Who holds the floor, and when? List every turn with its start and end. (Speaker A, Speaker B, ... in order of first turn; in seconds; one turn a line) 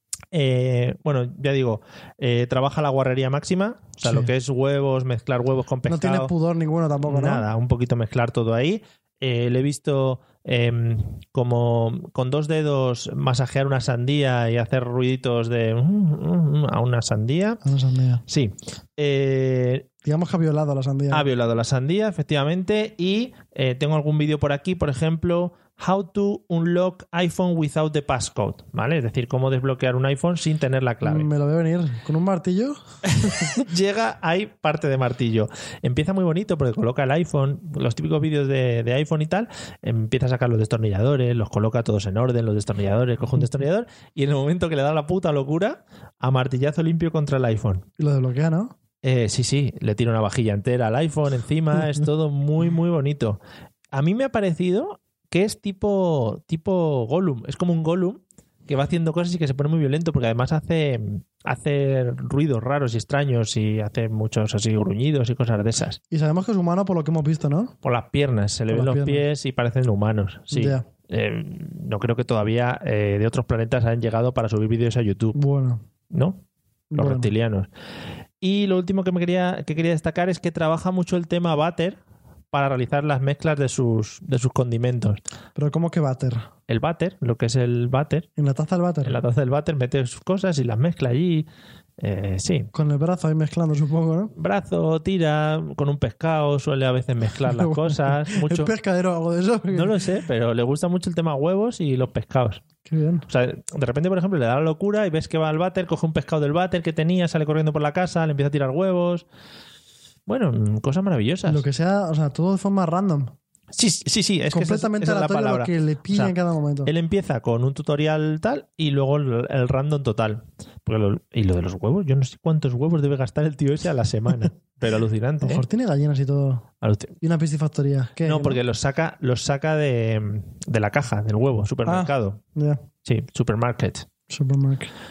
Speaker A: 0.3-6.3
Speaker B: 4.0-4.3
Speaker B: 5.8-7.5
Speaker A: 7.0-17.6
Speaker B: 17.6-18.2
Speaker A: 18.3-19.9
Speaker B: 20.1-21.3
Speaker A: 21.1-31.3
Speaker B: 31.0-33.5
Speaker A: 33.1-47.9
Speaker B: 48.0-48.7
Speaker A: 49.0-53.4
Speaker A: 53.9-66.0
Speaker B: 66.1-67.7
Speaker A: 67.8-75.4
Speaker B: 68.7-69.2
Speaker B: 70.5-70.8
Speaker B: 75.3-75.8
Speaker A: 76.1-76.4
Speaker B: 76.9-77.3
Speaker A: 77.0-77.7
Speaker A: 78.4-82.0
Speaker A: 82.5-85.2
Speaker B: 85.6-86.5
Speaker A: 86.7-88.3
Speaker B: 88.4-89.2
Speaker A: 89.0-91.5
Speaker A: 92.0-92.7
Speaker B: 92.7-94.3
Speaker A: 94.4-98.7
Speaker B: 97.5-100.0
Speaker A: 99.7-102.6
Speaker B: 102.9-103.3
Speaker A: 103.3-109.3
Speaker A: 110.3-111.6
Speaker B: 111.5-113.3
Speaker A: 113.7-125.7
Speaker B: 114.5-116.9
Speaker B: 125.4-126.7
Speaker A: 126.8-127.2
Speaker B: 127.2-128.6
Speaker A: 128.2-132.4
Speaker B: 131.8-132.8
Speaker A: 133.1-134.1
Speaker B: 134.3-134.9